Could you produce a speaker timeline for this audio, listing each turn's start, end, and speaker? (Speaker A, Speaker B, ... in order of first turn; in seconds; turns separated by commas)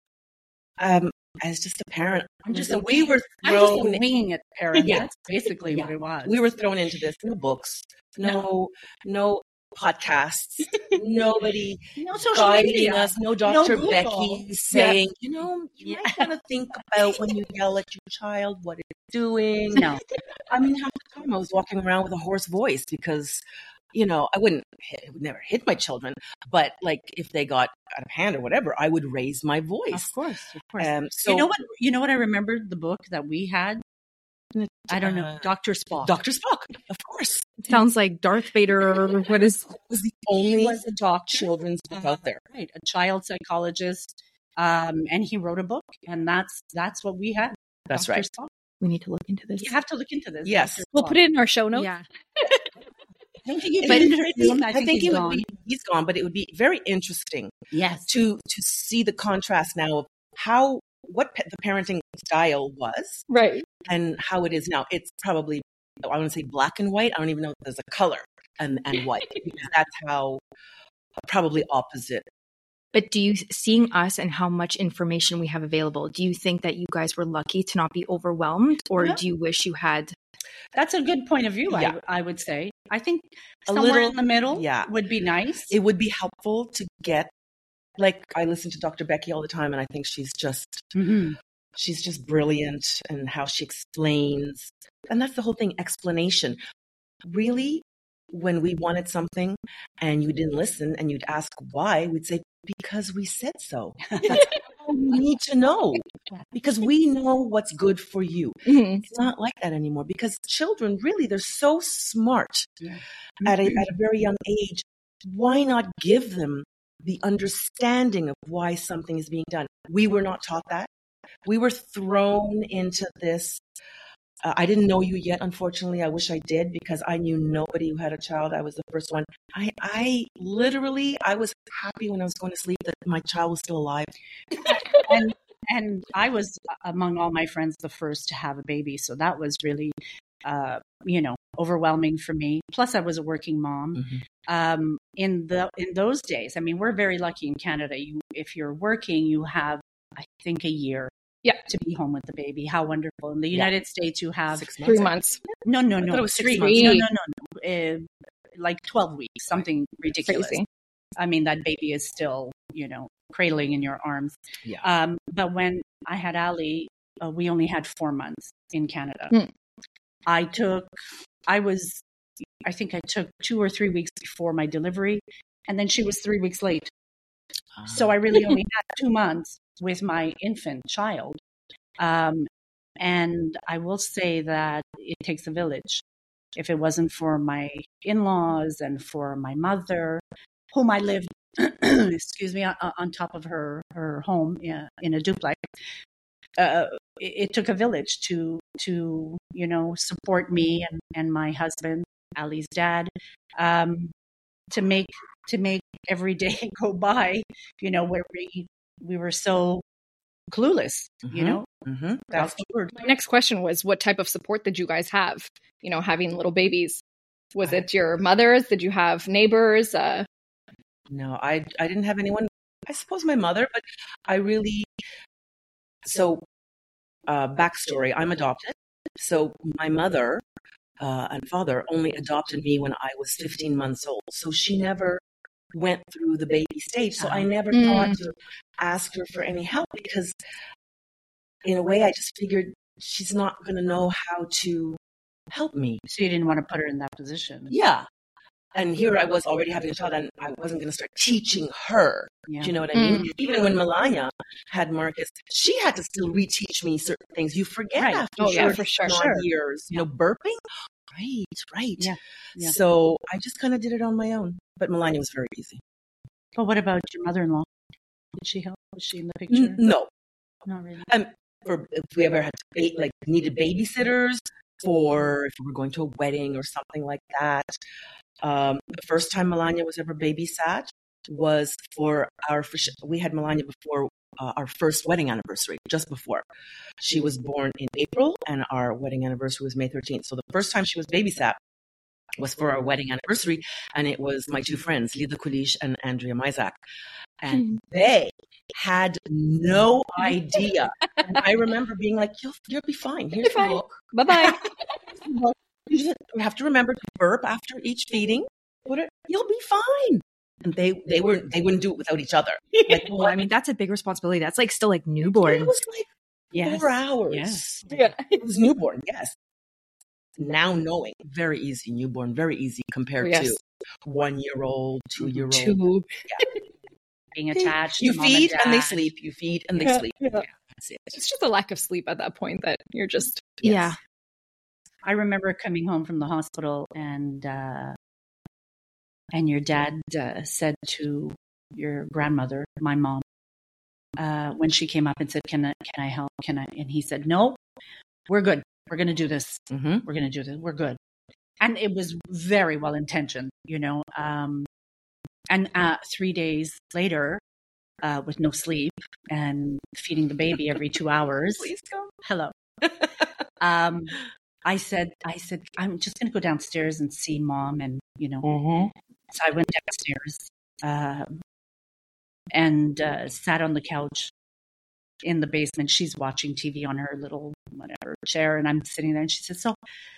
Speaker A: 0.8-4.0, Speaker B: 2.4-6.4, Speaker A: 4.8-5.1, Speaker A: 5.7-30.1, Speaker B: 11.9-15.0, Speaker B: 16.0-16.2, Speaker B: 19.8-20.0, Speaker B: 29.9-33.8, Speaker A: 30.8-31.5, Speaker A: 34.5-35.5, Speaker B: 34.9-36.1, Speaker A: 36.0-37.5, Speaker C: 37.7-39.8, Speaker A: 39.9-42.4, Speaker B: 40.4-48.5, Speaker A: 47.9-48.3, Speaker C: 48.8-49.7, Speaker B: 49.6-51.2, Speaker A: 50.4-50.8, Speaker D: 50.9-52.5, Speaker C: 51.7-52.0, Speaker B: 53.4-55.5, Speaker A: 53.8-57.5, Speaker B: 57.7-58.1, Speaker A: 58.1-63.2, Speaker D: 63.3-63.6, Speaker A: 63.9-70.4, Speaker A: 71.2-72.3, Speaker C: 72.9-80.1, Speaker B: 80.7-85.7, Speaker A: 81.7-82.0, Speaker A: 83.7-84.9, Speaker A: 85.7-87.3, Speaker A: 88.0-90.9, Speaker B: 90.9-91.4, Speaker A: 91.8-96.6, Speaker A: 97.2-112.8, Speaker B: 104.1-104.5, Speaker D: 108.7-109.0, Speaker B: 112.8-113.8, Speaker A: 113.4-120.9, Speaker A: 121.4-123.6, Speaker A: 124.4-134.1, Speaker B: 134.9-151.1, Speaker B: 151.6-154.7, Speaker A: 154.5-157.0, Speaker D: 154.8-155.4, Speaker B: 155.6-160.6, Speaker D: 156.5-157.1, Speaker D: 160.3-160.7, Speaker B: 161.2-169.3, Speaker B: 170.2-170.9, Speaker B: 171.5-172.0, Speaker B: 172.6-176.9, Speaker A: 177.8-178.1, Speaker B: 177.8-181.4, Speaker B: 182.0-186.0, Speaker B: 186.5-195.7, Speaker B: 196.6-204.1, Speaker B: 204.7-209.8, Speaker B: 210.5-211.7, Speaker A: 211.2-212.7, Speaker B: 212.3-212.9, Speaker D: 212.9-217.0, Speaker D: 217.5-220.2, Speaker A: 221.1-224.9, Speaker A: 226.0-226.4, Speaker A: 227.3-230.4, Speaker A: 231.0-235.2, Speaker A: 235.7-240.3, Speaker B: 237.2-237.5, Speaker D: 237.7-238.2, Speaker A: 241.6-245.0, Speaker A: 245.5-246.0, Speaker B: 246.1-247.7, Speaker A: 247.7-248.1, Speaker A: 248.7-265.8, Speaker B: 252.5-252.8, Speaker D: 252.9-253.3, Speaker B: 257.9-259.4, Speaker D: 258.4-259.1, Speaker B: 262.0-262.7, Speaker B: 266.6-267.6, Speaker B: 268.4-269.8, Speaker A: 269.5-270.1, Speaker B: 270.6-271.1, Speaker A: 271.1-277.8, Speaker A: 278.4-286.4, Speaker A: 287.0-291.6, Speaker A: 292.4-296.8, Speaker A: 297.4-304.6, Speaker D: 303.4-304.7, Speaker A: 305.9-313.4, Speaker C: 313.1-315.7, Speaker A: 315.2-316.1, Speaker B: 316.5-317.6, Speaker A: 316.6-319.3, Speaker D: 317.9-318.4, Speaker A: 320.4-326.4, Speaker D: 323.2-323.5, Speaker D: 325.5-326.6, Speaker B: 327.3-329.0, Speaker A: 327.5-331.2, Speaker D: 329.8-330.4, Speaker D: 331.1-333.5, Speaker A: 333.6-333.9, Speaker C: 333.6-334.0, Speaker B: 335.0-337.9, Speaker B: 339.3-343.2, Speaker B: 344.2-347.6, Speaker B: 348.3-351.0, Speaker A: 349.7-350.0, Speaker B: 351.6-354.7, Speaker B: 355.5-357.4, Speaker B: 358.0-361.7, Speaker A: 361.6-362.1, Speaker B: 362.2-362.5, Speaker B: 363.6-368.5, Speaker B: 369.3-371.4, Speaker B: 372.5-374.3, Speaker B: 375.2-379.8